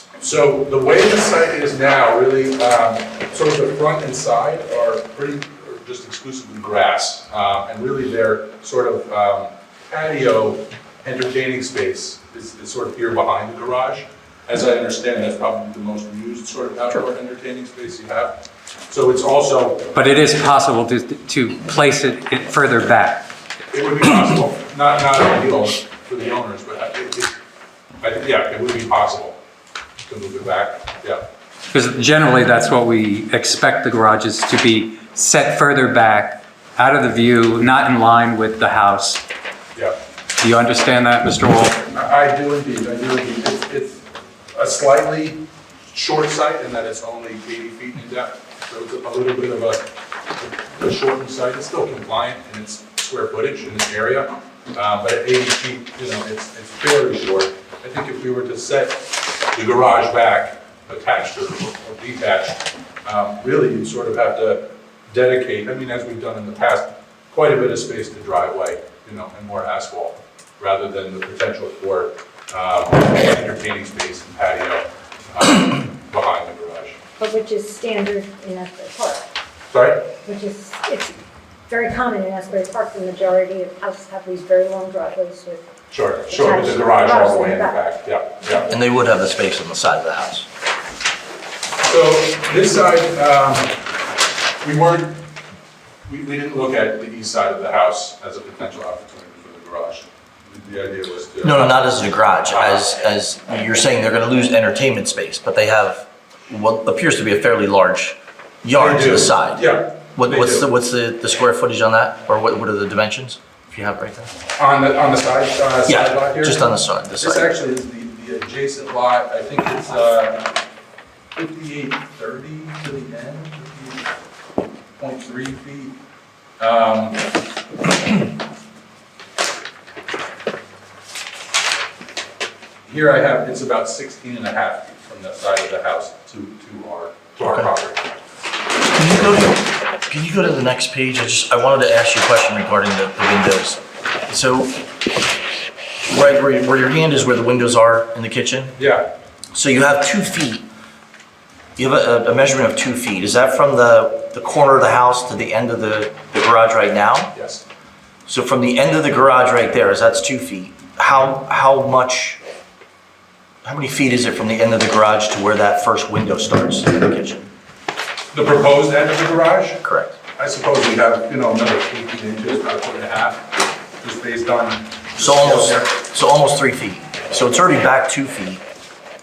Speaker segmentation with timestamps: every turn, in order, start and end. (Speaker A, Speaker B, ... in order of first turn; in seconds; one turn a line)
Speaker A: 0.2-19.9
Speaker B: 19.9-23.3
Speaker A: 23.7-27.4
Speaker A: 28.0-29.4
Speaker A: 30.1-31.2
Speaker B: 31.7-39.2
Speaker B: 40.4-41.8
Speaker A: 41.9-77.0
Speaker C: 77.2-79.3
Speaker A: 79.7-80.1
Speaker C: 80.2-81.1
Speaker C: 81.7-85.7
Speaker A: 85.9-88.7
Speaker C: 86.3-87.8
Speaker D: 88.7-90.5
Speaker A: 91.8-93.8
Speaker A: 94.6-95.2
Speaker A: 96.1-101.8
Speaker D: 101.4-114.3
Speaker A: 102.5-102.8
Speaker A: 108.8-110.7
Speaker A: 114.6-116.6
Speaker D: 115.9-117.5
Speaker A: 117.2-120.5
Speaker A: 121.3-124.1
Speaker A: 125.0-126.0
Speaker A: 126.6-127.3
Speaker A: 132.9-138.1
Speaker D: 137.4-137.7
Speaker D: 138.9-144.8
Speaker D: 146.0-148.8
Speaker A: 148.8-149.1
Speaker D: 149.5-150.7
Speaker D: 151.8-157.3
Speaker A: 157.3-157.6
Speaker D: 158.3-162.4
Speaker D: 163.6-167.5
Speaker A: 168.3-169.8
Speaker D: 169.8-170.2
Speaker A: 170.4-175.9
Speaker D: 175.2-178.6